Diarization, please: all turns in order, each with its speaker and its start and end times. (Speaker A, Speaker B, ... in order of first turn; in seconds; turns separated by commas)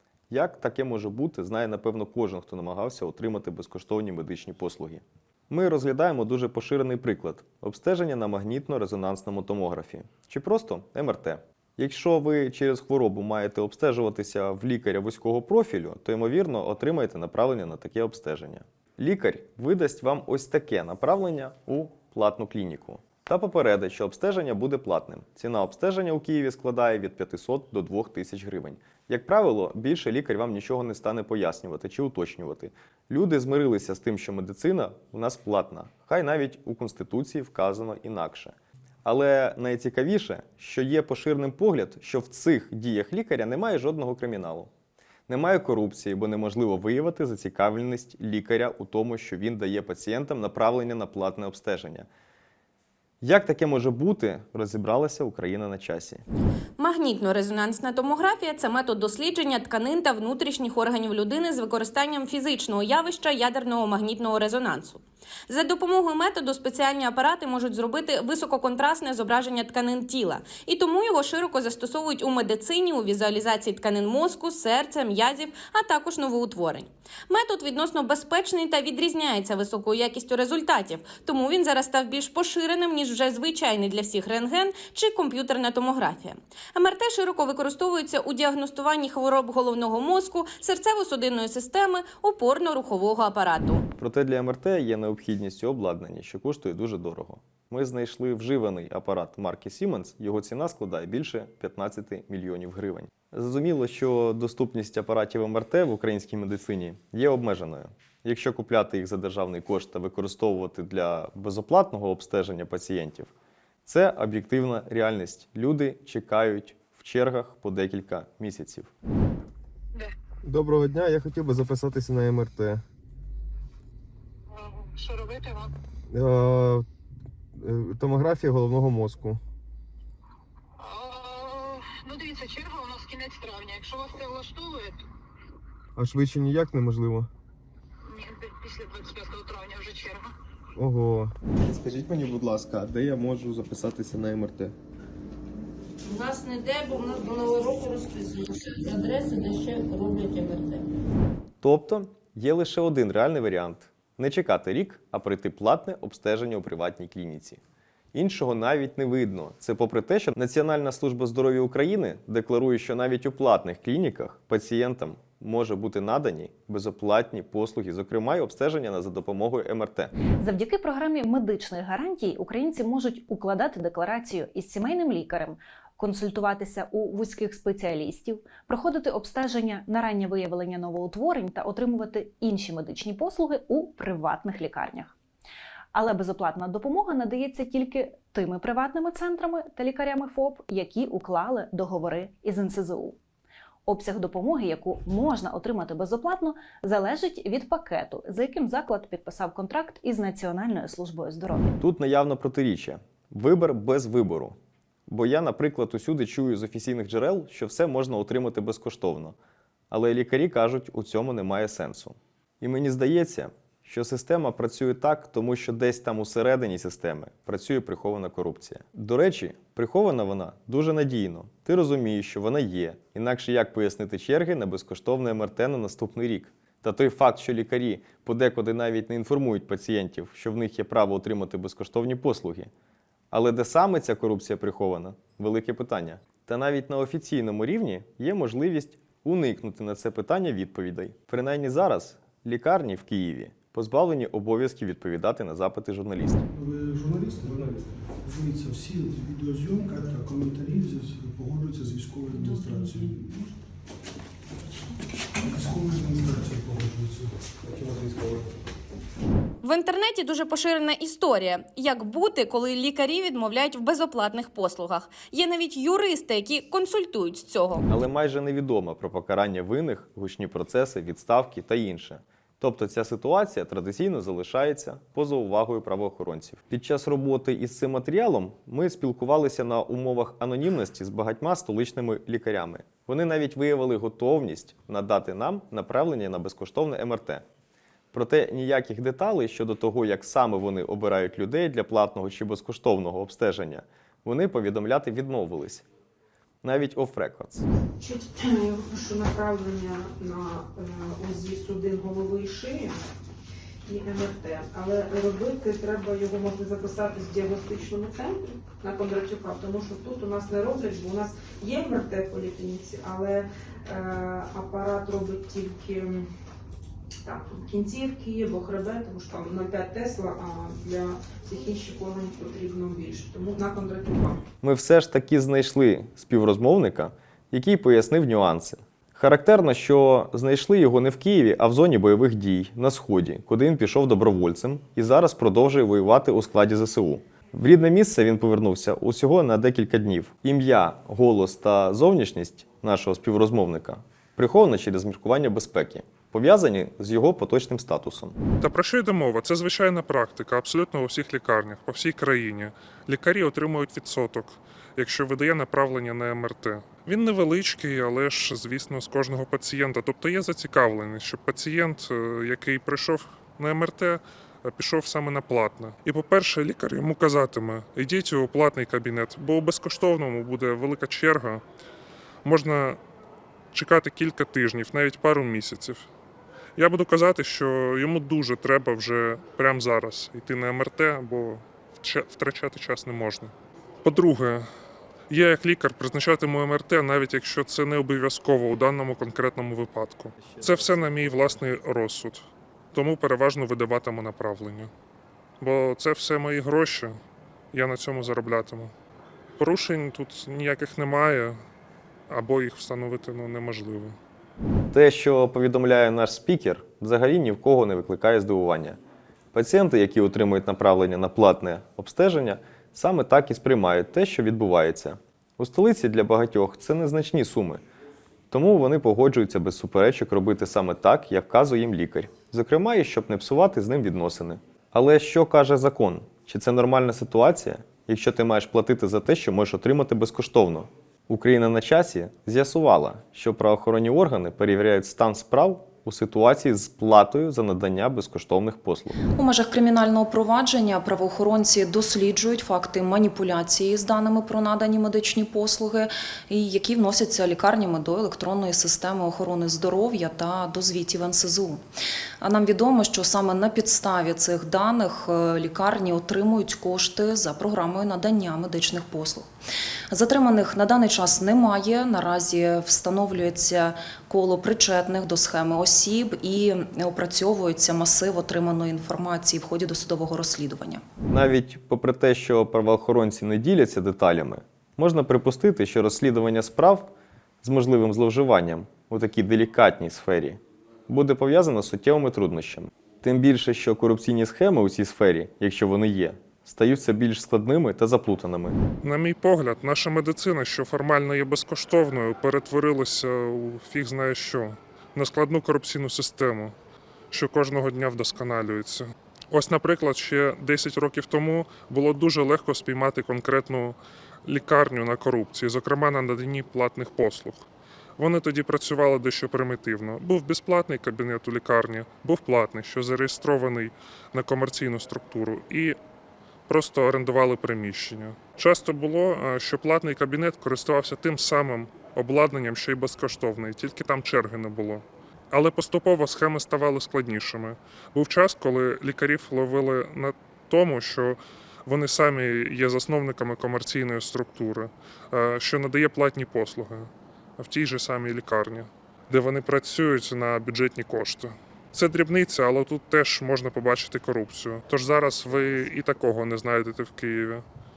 Speaker A: 0.3-44.7, Speaker A: 45.3-52.1, Speaker A: 53.2-56.2, Speaker B: 56.8-93.9, Speaker A: 94.0-113.3, Speaker A: 113.8-118.9, Speaker C: 120.5-122.8, Speaker D: 124.5-125.7, Speaker C: 126.1-126.8, Speaker C: 127.6-129.4, Speaker D: 130.8-135.0, Speaker C: 136.0-137.3, Speaker D: 138.1-140.3, Speaker C: 140.8-141.3, Speaker A: 141.6-144.4, Speaker E: 146.1-150.8, Speaker A: 151.6-157.6, Speaker A: 158.1-170.1, Speaker F: 170.4-185.1, Speaker F: 185.9-193.2, Speaker F: 193.9-201.7, Speaker A: 201.8-204.5, Speaker A: 205.1-209.3, Speaker A: 209.9-232.7, Speaker A: 233.3-246.4, Speaker G: 246.5-253.6, Speaker G: 255.4-257.5, Speaker B: 259.6-267.8, Speaker A: 267.9-287.4, Speaker A: 288.1-295.9, Speaker A: 296.6-297.6, Speaker H: 298.0-303.0, Speaker H: 303.9-316.3, Speaker H: 317.2-324.4, Speaker A: 324.6-348.4, Speaker I: 348.6-371.6, Speaker I: 372.4-373.0, Speaker I: 373.7-376.1, Speaker I: 376.8-384.6, Speaker I: 385.3-394.9, Speaker A: 390.4-391.4, Speaker I: 395.6-397.2, Speaker I: 397.7-398.9, Speaker I: 399.6-401.6, Speaker I: 402.3-404.2, Speaker A: 404.9-409.0, Speaker A: 409.5-417.8, Speaker A: 418.5-439.2, Speaker J: 439.3-451.8, Speaker J: 452.4-459.5, Speaker J: 460.1-471.0, Speaker A: 471.3-477.1, Speaker A: 477.6-488.8, Speaker I: 489.0-496.8, Speaker I: 497.3-507.7, Speaker I: 508.2-516.0, Speaker I: 516.7-547.6